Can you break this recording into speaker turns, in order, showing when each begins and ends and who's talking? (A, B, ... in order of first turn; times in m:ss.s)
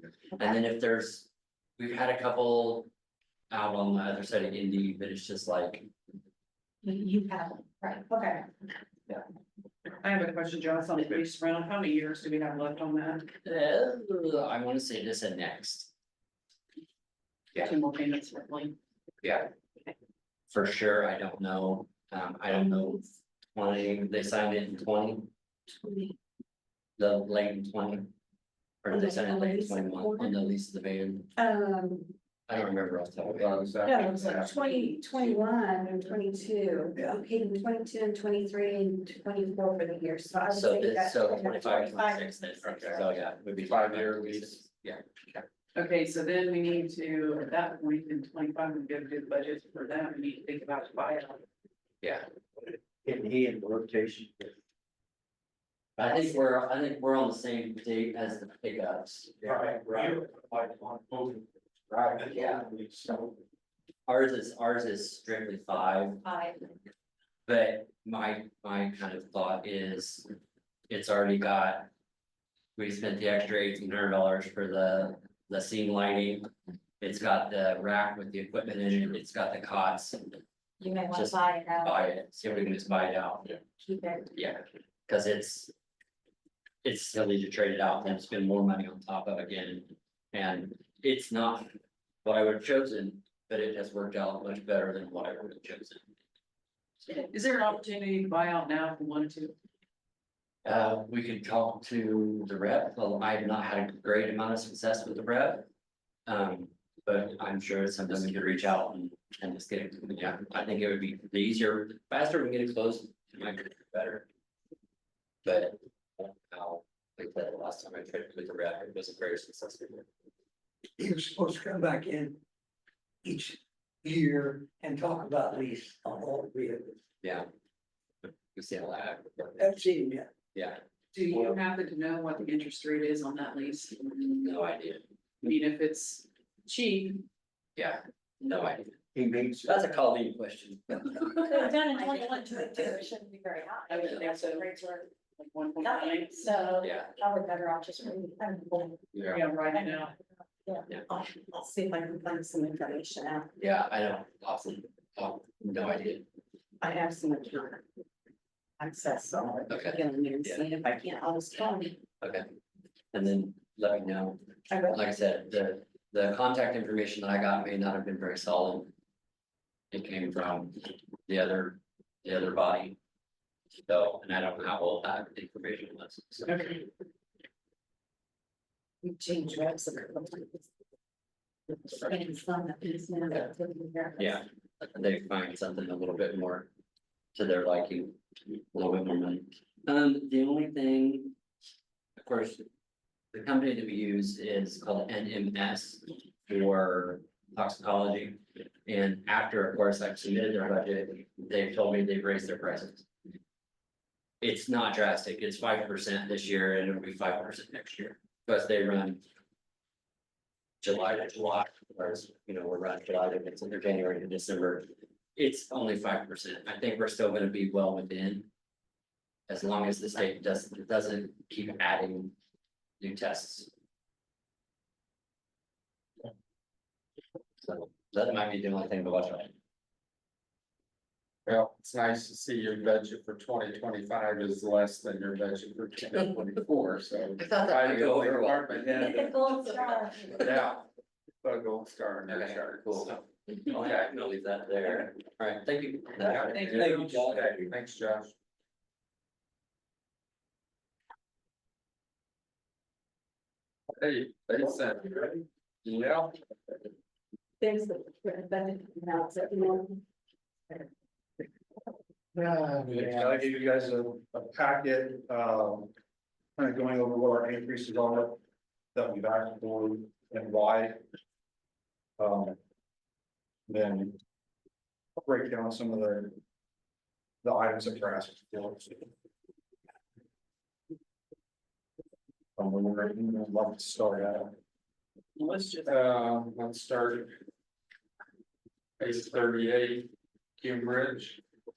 0:00.4-0:02.9 A
0:03.5-0:05.9 A
0:06.8-0:08.5 B
0:10.0-0:13.3 C
0:13.4-0:15.9 A
0:17.6-0:18.8 C
0:19.2-0:19.5 A
0:20.5-0:25.3 A
0:25.7-0:26.1 B
0:27.0-0:28.1 A
0:28.8-0:31.3 A
0:28.9-0:30.4 B
0:31.4-0:32.1 B
0:32.5-0:33.5 A
0:33.2-0:34.7 D
0:33.8-0:43.0 B
0:40.5-0:45.4 A
0:43.6-0:44.6 D
0:45.8-0:51.4 C
0:52.0-0:52.3 A
0:53.0-0:54.5 E
0:56.0-0:59.5 A
0:59.4-1:03.3 F
1:02.3-1:02.6 A
1:04.1-1:06.2 A
1:06.2-1:06.6 B
1:07.4-1:10.3 A
1:10.9-1:11.9 A
1:12.8-1:16.5 A
1:17.0-1:20.4 A
1:20.8-1:22.1 B
1:21.1-1:23.5 A
1:23.8-1:24.3 B
1:24.3-1:25.7 A
1:26.8-1:31.7 A
1:32.2-1:36.0 A
1:37.2-1:39.6 C
1:40.6-1:45.6 A
1:46.3-1:54.3 A
1:55.4-2:00.0 A
2:01.0-2:02.4 E
2:03.2-2:07.0 E
2:07.2-2:07.5 A
2:08.2-2:09.7 A
2:09.6-2:10.3 E
2:10.5-2:10.8 A
2:11.1-2:14.5 C
2:14.4-2:15.0 A
2:15.4-2:17.2 C
2:17.8-2:19.0 A
2:19.1-2:20.0 E
2:19.6-2:21.7 A
2:21.5-2:25.1 B
2:21.7-2:23.0 C
2:23.9-2:24.7 C
2:25.3-2:26.5 C
2:25.8-2:29.1 B
2:26.8-2:27.1 A
2:29.3-2:30.1 C
2:29.7-2:33.5 B
2:33.6-2:36.3 A
2:36.8-2:37.8 B
2:38.8-2:42.0 B
2:39.7-2:40.7 A
2:42.2-2:42.5 A
2:43.1-2:48.9 A
2:44.7-2:45.0 B
2:49.9-2:53.0 A
2:53.8-2:56.5 A
2:56.4-2:56.8 C
2:59.0-3:00.7 B
3:01.7-3:04.4 B
3:04.2-3:06.7 A
3:07.3-3:08.2 A
3:08.7-3:11.3 A
3:12.2-3:12.6 A
3:13.3-3:23.1 A
3:24.4-3:29.2 A
3:30.8-3:38.5 A
3:39.5-3:42.3 A
3:43.0-3:43.7 A
3:47.6-3:49.5 A
3:51.4-3:59.4 D
3:57.4-3:59.2 A
3:58.8-4:00.6 B
4:00.3-4:00.8 D
4:01.4-4:03.2 D
4:02.3-4:07.7 A
4:06.2-4:08.3 D
4:06.5-4:07.3 C
4:13.9-4:16.4 D
4:17.6-4:20.0 B
4:22.4-4:23.4 D
4:22.9-4:25.9 F
4:26.6-4:28.4 F
4:28.9-4:31.0 F
4:32.2-4:32.6 F
4:33.7-4:34.2 F
4:35.2-4:36.4 F
4:37.4-4:39.1 F
4:42.6-4:44.5 F
4:45.4-4:46.0 C
4:45.8-4:47.4 D
4:49.0-4:51.4 D